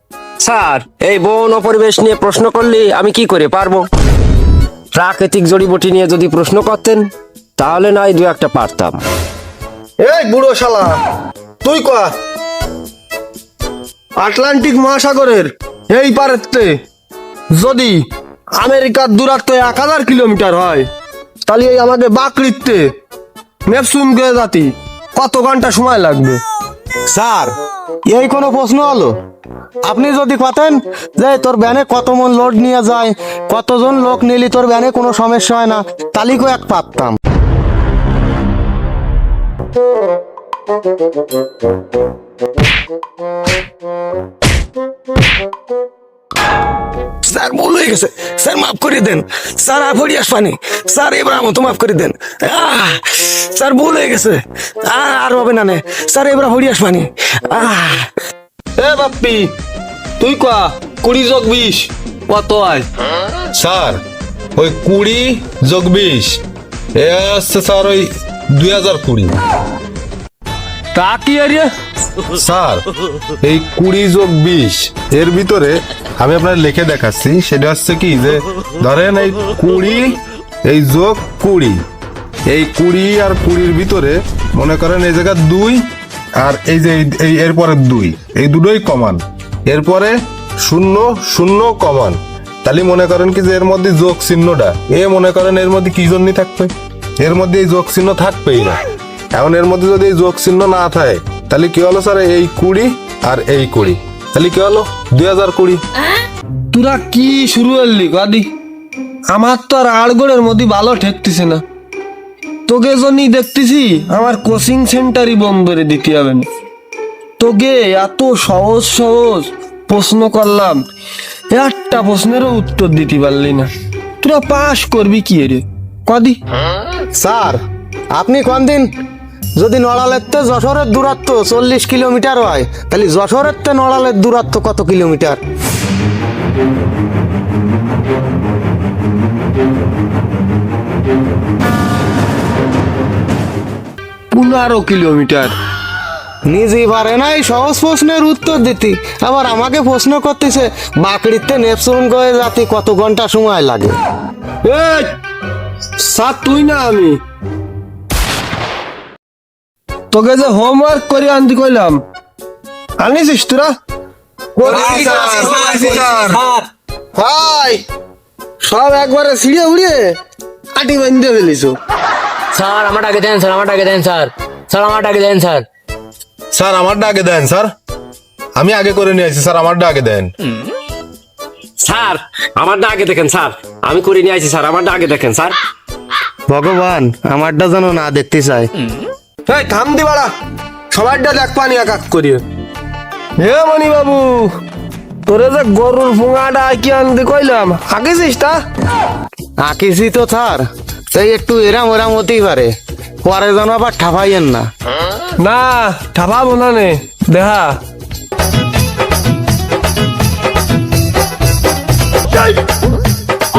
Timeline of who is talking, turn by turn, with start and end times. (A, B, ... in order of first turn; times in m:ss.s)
0:00.4-0:03.9 A
0:04.9-0:07.0 A
0:07.6-0:09.0 A
0:10.0-0:11.0 B
0:11.6-0:12.1 B
0:14.2-0:16.8 B
0:17.5-0:18.0 B
0:18.6-0:20.9 B
0:21.5-0:22.9 B
0:23.6-0:26.4 B
0:27.1-0:27.5 C
0:28.1-0:29.1 C
0:29.8-0:37.2 C
0:47.2-0:58.0 C
0:58.8-0:59.5 B
1:00.2-1:02.9 B
1:03.5-1:04.0 D
1:04.6-1:06.4 D
1:06.9-1:09.3 D
1:10.9-1:11.7 B
1:12.3-1:12.8 D
1:13.4-1:21.8 D
1:22.5-1:38.8 D
1:39.3-1:45.8 D
1:46.7-1:48.5 B
1:49.3-1:51.6 B
1:52.7-1:56.5 B
1:57.4-2:00.8 B
2:01.5-2:03.7 B
2:04.2-2:06.4 B
2:07.1-2:07.6 C
2:08.2-2:08.9 C
2:09.6-2:15.4 C
2:24.3-2:25.5 B
2:26.4-2:33.9 C
2:34.6-2:35.1 B
2:36.0-2:37.2 B
2:40.1-2:42.0 B
2:43.0-2:43.7 B
2:44.6-2:46.4 B
2:44.6-2:46.6 E
2:47.2-2:47.8 B
2:48.6-2:50.2 B
2:50.7-2:51.8 B
2:52.5-2:55.6 E
2:56.5-2:57.7 D
2:58.6-3:00.3 D
3:01.8-3:05.6 A
3:06.5-3:08.7 C
3:09.5-3:10.3 B
3:10.9-3:12.4 B
3:13.4-3:14.5 B
3:15.2-3:18.6 B
3:19.6-3:22.7 C
3:23.2-3:24.7 C
3:25.4-3:27.8 B